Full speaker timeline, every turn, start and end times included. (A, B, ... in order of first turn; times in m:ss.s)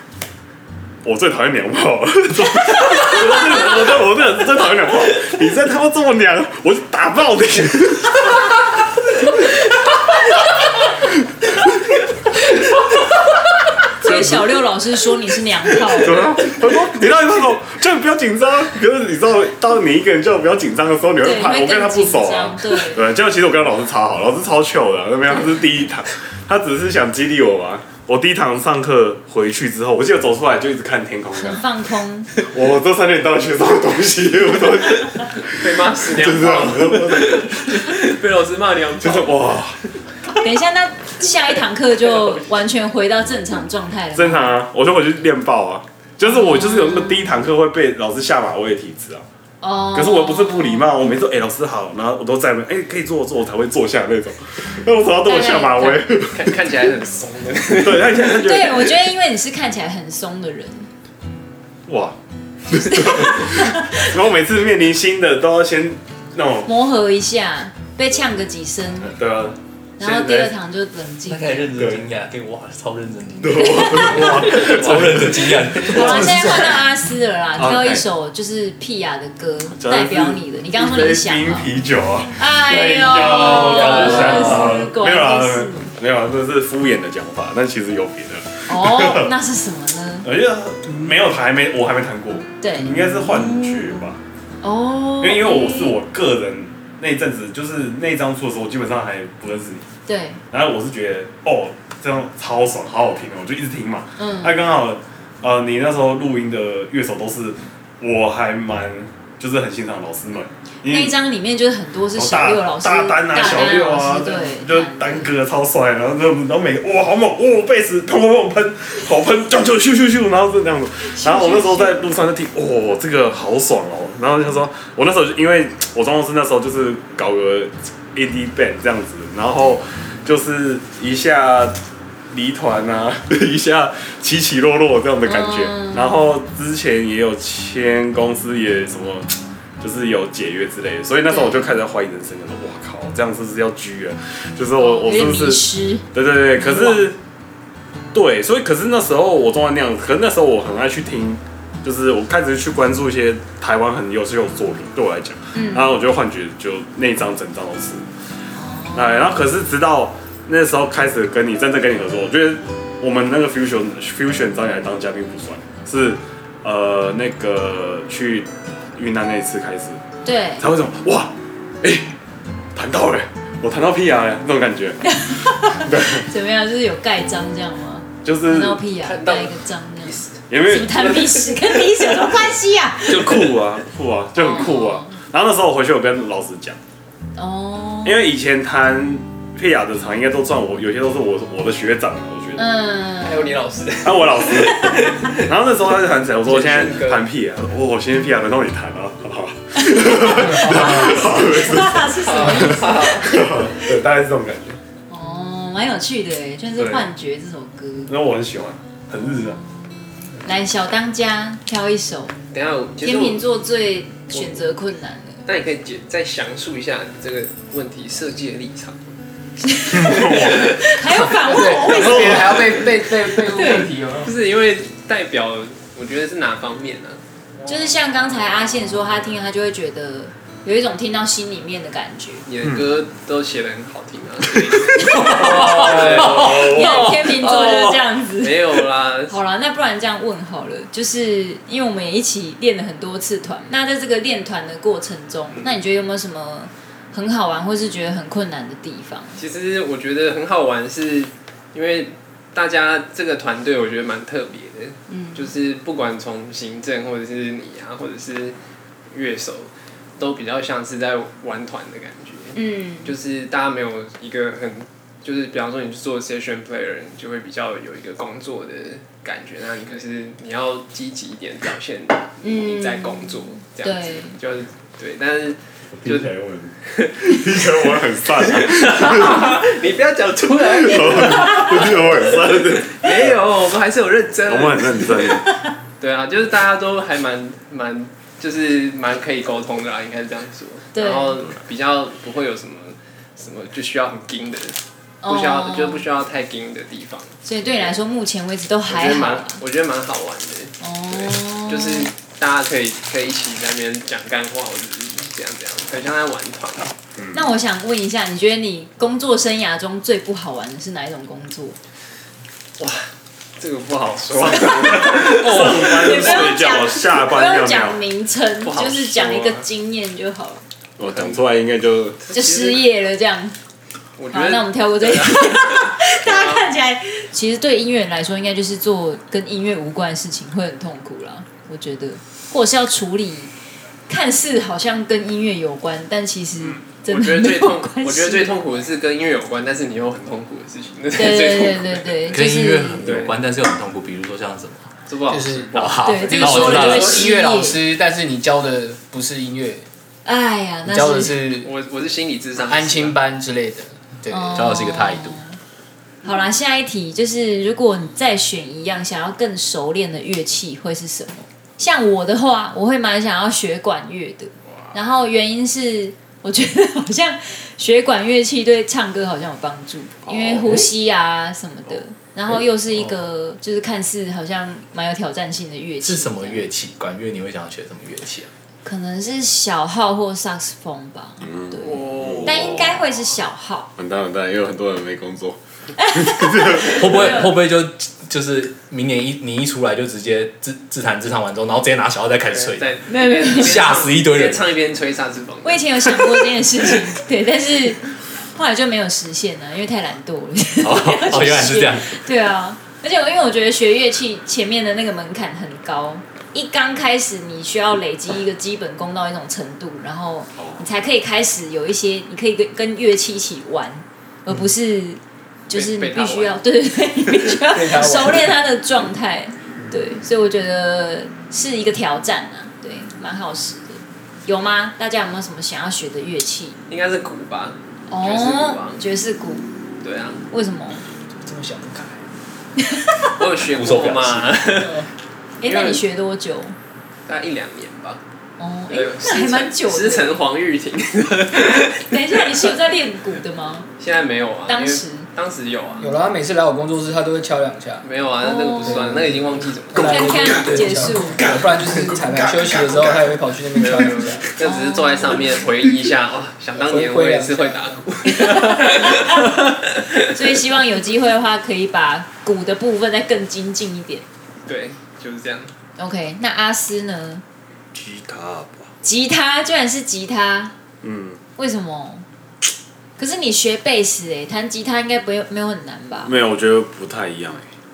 0:01.0-0:11.7 A
0:14.0-0:16.3 B
0:14.0-0:14.6 A
0:15.9-0:31.6 A
0:21.2-0:23.0 B
0:25.3-0:25.6 B
0:31.4-0:32.3 B
0:32.3-0:37.9 A
0:35.4-0:39.5 C
0:39.0-0:39.8 A
0:40.3-0:44.6 B
0:44.1-0:49.2 A
0:46.2-0:47.4 B
0:49.6-0:50.9 B
0:49.9-0:56.7 A
0:55.2-0:56.0 B
0:56.3-0:58.4 C
0:57.7-0:59.0 A
0:58.3-1:00.9 B
1:01.9-1:02.2 A
1:02.7-1:06.7 A
1:02.7-1:04.1 B
1:06.6-1:09.2 B
1:09.0-1:10.5 A
1:10.0-1:11.7 B
1:11.3-1:16.6 D
1:11.8-1:12.0 A
1:13.4-1:16.8 A
1:13.6-1:14.8 B
1:15.8-1:21.7 B
1:17.6-1:18.0 A
1:19.7-1:29.3 A
1:22.3-1:25.9 B
1:28.7-1:30.3 B
1:30.2-1:34.2 A
1:32.6-1:32.9 B
1:34.6-1:36.0 B
1:35.2-1:39.9 A
1:40.1-1:40.4 B
1:40.5-1:51.1 A
1:44.2-1:44.6 B
1:50.8-1:55.3 B
1:52.1-2:11.8 A
2:01.0-2:02.0 B
2:12.3-2:27.2 A
2:15.2-2:16.2 B
2:21.3-2:21.8 B
2:24.8-2:27.1 B
2:28.1-2:38.0 A
2:35.5-2:35.9 B
2:38.5-2:39.4 B
2:38.9-2:50.0 A
2:50.2-2:50.6 B
2:50.6-2:52.1 A
2:52.7-2:55.1 A
2:55.1-3:03.5 B
2:55.6-2:56.3 A
2:58.2-2:58.8 A
2:59.0-3:00.4 C
3:00.5-3:01.4 A
3:01.1-3:02.2 C
3:03.1-3:06.8 A
3:04.4-3:05.2 B
3:07.4-3:08.3 B
3:08.0-3:12.7 A
3:12.6-3:13.6 B
3:13.2-3:15.4 C
3:14.0-3:24.8 A
3:16.4-3:17.2 C
3:19.8-3:23.2 B
3:22.1-3:23.6 C
3:25.1-3:28.1 B
3:26.8-3:27.1 A
3:28.1-3:29.6 A
3:29.2-3:29.7 B
3:30.4-3:32.4 B
3:32.5-3:33.4 C
3:33.0-3:35.4 B
3:35.4-3:39.1 C
3:39.6-3:42.7 B
3:39.9-3:40.8 A
3:40.1-3:40.9 C
3:41.4-3:44.3 E
3:41.9-3:42.6 A
3:42.4-3:42.9 C
3:43.4-3:47.2 C
3:43.5-3:43.9 B
3:47.6-3:52.4 B
3:52.4-3:59.3 C
3:55.0-3:57.9 D
3:55.1-3:58.6 B
3:55.2-3:57.1 A
3:59.3-4:09.4 B
4:09.4-4:18.6 C
4:15.1-4:15.5 B
4:19.1-4:36.3 C
4:22.5-4:23.1 B
4:32.4-4:34.4 B
4:36.0-4:39.6 A
4:36.8-4:45.5 C
4:40.6-4:43.4 A
4:44.4-4:45.5 A
4:46.0-4:58.0 C
4:50.9-4:51.5 B
4:55.2-4:56.0 B
4:57.4-4:59.6 B
4:58.9-5:06.9 C
5:00.8-5:02.1 B
5:07.2-5:07.5 A
5:07.3-5:11.8 B
5:12.8-5:13.1 C
5:13.6-5:16.6 C
5:14.3-5:18.0 A
5:15.3-5:20.6 B
5:18.6-5:19.6 C
5:21.0-5:22.2 A
5:21.0-5:21.4 C
5:22.2-5:22.8 C
5:22.3-5:23.6 B
5:24.2-5:26.7 C
5:24.3-5:33.5 B
5:34.1-5:38.6 B
5:36.6-5:42.2 C
5:41.1-5:43.1 B
5:42.3-5:44.9 D
5:43.0-5:43.3 C
5:45.1-5:47.2 C
5:45.3-5:49.8 E
5:45.7-5:47.2 D
5:46.0-5:47.8 B
5:50.2-5:51.4 B
5:50.8-5:51.7 E
5:51.6-5:53.2 C
5:52.6-5:54.6 E
5:54.3-5:55.6 B
5:54.5-5:55.4 D
5:56.2-6:16.6 B
6:10.2-6:10.8 A
6:16.0-6:18.5 D
6:18.8-6:23.9 B
6:21.4-6:23.0 A
6:21.8-6:22.9 C
6:24.0-6:27.4 A
6:26.0-6:27.5 B
6:26.8-6:34.6 D
6:32.5-6:36.2 C
6:33.1-6:33.8 B
6:35.6-7:06.8 B
6:40.8-6:42.2 D
6:50.6-6:50.8 A
6:55.7-6:56.6 C
6:57.7-6:58.5 E
7:06.9-7:09.0 C
7:08.1-7:09.7 B
7:10.0-7:10.4 C
7:10.5-7:11.0 B
7:11.3-7:12.2 E
7:12.8-7:13.4 B
7:13.4-7:15.0 C
7:13.7-7:14.6 D
7:14.7-7:15.1 E
7:15.6-7:16.8 B
7:15.6-7:16.0 C
7:17.3-7:18.2 C
7:18.6-7:20.4 B
7:18.9-7:22.7 C
7:21.8-7:23.9 B
7:24.0-7:26.1 C
7:24.7-7:25.3 B
7:26.0-7:28.1 E
7:28.0-7:30.8 C
7:28.4-7:29.1 B
7:28.8-7:34.4 E
7:29.9-7:31.5 B
7:31.4-7:33.3 A
7:33.7-7:40.2 C
7:34.6-7:35.7 B
7:36.8-7:38.1 E
7:38.3-7:39.6 B
7:40.2-7:44.2 B
7:44.6-7:45.7 C
7:46.0-7:47.4 B
7:47.9-7:48.9 A
7:49.0-7:50.7 B
7:51.0-7:51.4 A
7:51.6-7:52.2 B
7:53.2-7:56.3 B
7:56.2-7:57.7 A